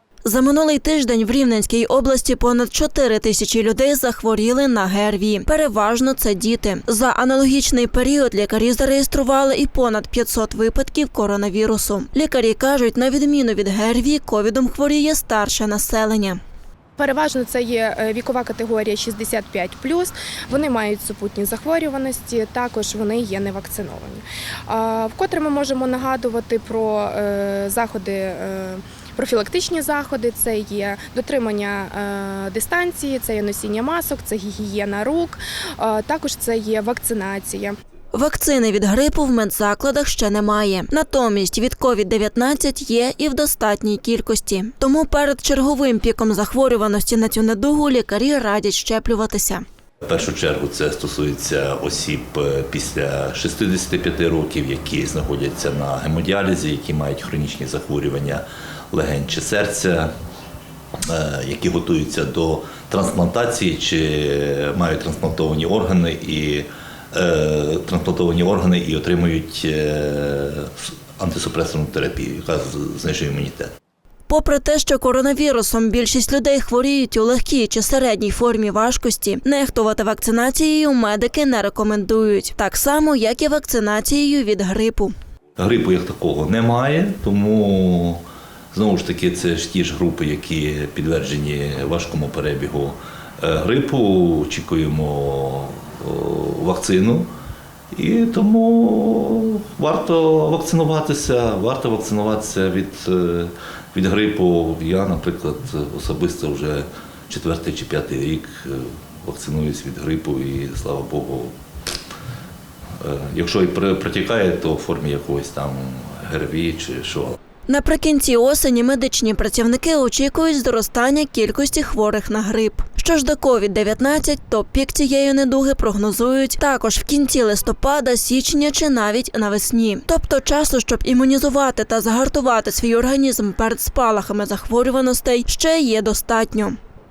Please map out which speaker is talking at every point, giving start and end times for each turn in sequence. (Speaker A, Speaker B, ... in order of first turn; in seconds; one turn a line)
Speaker A: 0.2-16.4
Speaker B: 17.0-37.8
Speaker A: 38.1-49.6
Speaker C: 50.0-60.1
Speaker C: 61.1-73.7
Speaker A: 74.3-85.1
Speaker C: 85.6-97.3
Speaker C: 97.9-111.5
Speaker C: 113.0-117.4
Speaker A: 117.7-136.8